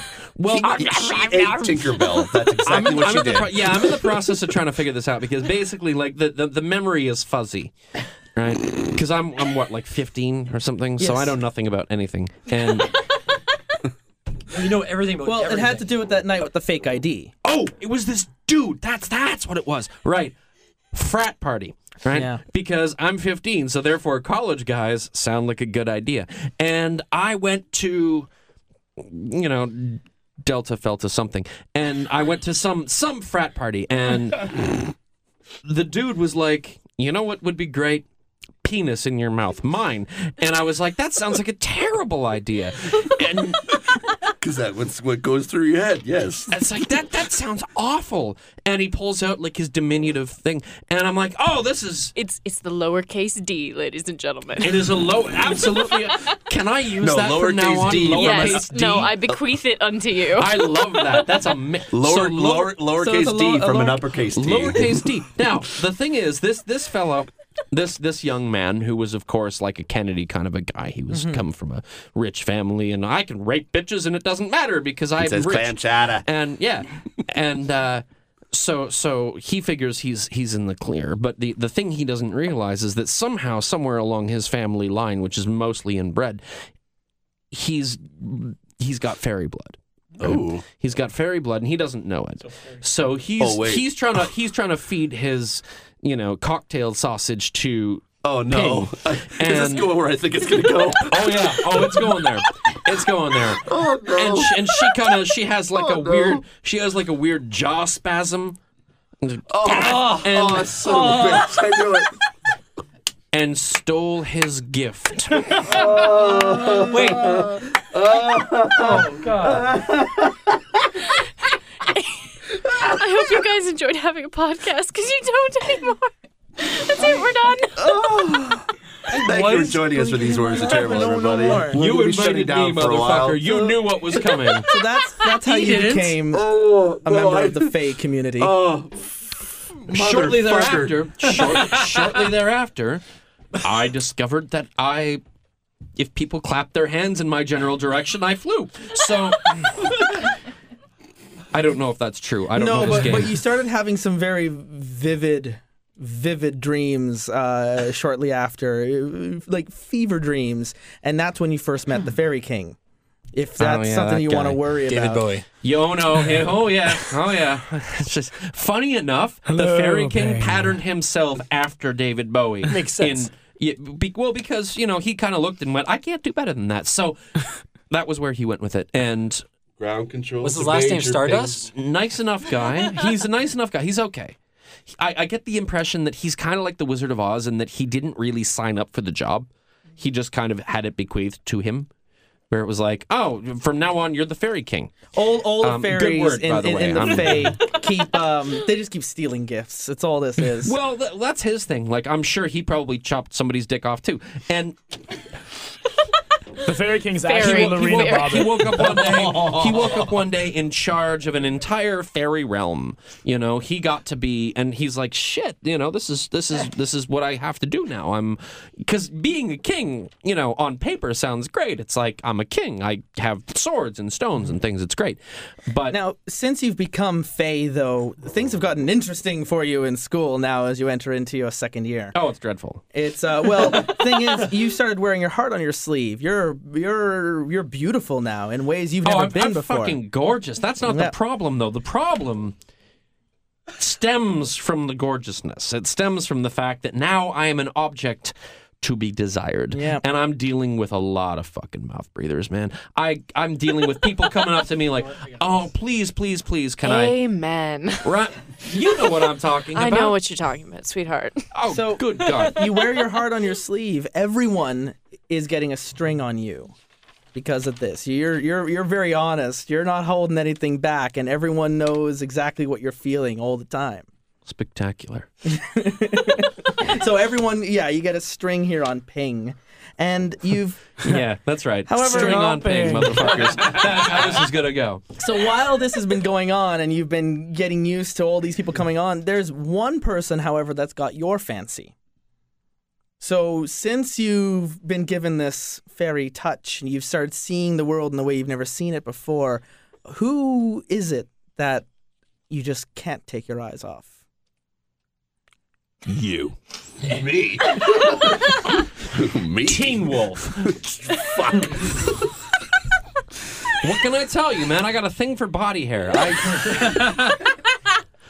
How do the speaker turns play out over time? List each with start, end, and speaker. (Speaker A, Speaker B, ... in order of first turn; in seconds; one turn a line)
Speaker A: 0.3-7.7
Speaker B: 0.5-3.9
Speaker A: 8.3-13.0
Speaker C: 11.0-11.4
Speaker D: 14.5-15.9
Speaker C: 15.2-17.3
Speaker A: 17.4-20.3
Speaker A: 20.9-28.3
Speaker C: 22.1-22.4
Speaker A: 29.0-34.6
Speaker A: 35.6-38.0
Speaker A: 38.6-43.7
Speaker B: 44.4-46.5
Speaker A: 46.5-52.1
Speaker E: 52.1-54.8
Speaker A: 54.6-59.1
Speaker B: 57.0-58.7
Speaker E: 58.1-60.7
Speaker A: 60.4-62.8
Speaker B: 61.9-65.1
Speaker C: 62.9-64.2
Speaker A: 64.3-86.4
Speaker C: 71.1-71.4
Speaker B: 75.2-76.2
Speaker A: 87.5-100.0
Speaker B: 90.2-90.6
Speaker B: 93.4-93.8
Speaker B: 98.2-102.1
Speaker A: 101.1-108.6
Speaker B: 103.6-104.6
Speaker B: 105.8-106.4
Speaker A: 109.2-111.4
Speaker B: 109.5-112.1
Speaker A: 113.3-115.5
Speaker B: 115.6-120.6
Speaker D: 116.9-117.6
Speaker F: 119.0-119.6
Speaker E: 122.8-127.8
Speaker B: 127.8-133.8
Speaker D: 129.3-130.3
Speaker C: 130.2-131.9
Speaker A: 131.7-134.7
Speaker C: 134.7-136.4
Speaker D: 135.3-136.2
Speaker B: 136.3-137.7
Speaker C: 137.0-138.5
Speaker B: 138.4-141.3
Speaker A: 139.9-143.0
Speaker A: 143.6-145.2
Speaker A: 145.9-150.1
Speaker A: 151.5-153.4
Speaker C: 152.5-162.8
Speaker C: 163.3-165.3
Speaker A: 163.6-164.6
Speaker D: 164.9-165.4
Speaker A: 165.6-179.4
Speaker F: 169.4-170.7
Speaker D: 172.7-173.3
Speaker B: 179.8-181.6
Speaker D: 180.4-181.7
Speaker A: 181.6-184.3
Speaker A: 184.9-191.9
Speaker A: 192.5-197.6
Speaker C: 195.1-200.8
Speaker A: 200.6-204.8
Speaker F: 206.6-208.7
Speaker E: 207.2-208.6
Speaker A: 207.4-226.0
Speaker B: 208.7-210.1
Speaker C: 225.9-232.1
Speaker A: 232.1-232.8
Speaker C: 232.9-240.0
Speaker A: 239.0-242.6
Speaker C: 240.8-241.1
Speaker A: 243.8-257.1
Speaker C: 249.7-250.0
Speaker D: 255.0-255.7
Speaker E: 256.8-258.1
Speaker A: 258.0-260.2
Speaker E: 259.7-261.4
Speaker A: 261.5-262.7
Speaker C: 261.6-266.7
Speaker C: 267.3-274.1
Speaker A: 274.5-275.3
Speaker C: 275.4-281.2
Speaker A: 281.0-285.0
Speaker C: 281.9-283.6
Speaker F: 282.1-283.4
Speaker C: 285.2-291.9
Speaker C: 293.2-301.9
Speaker C: 302.5-304.1
Speaker A: 306.1-306.5
Speaker B: 307.0-311.9
Speaker A: 309.6-310.8
Speaker A: 313.8-317.6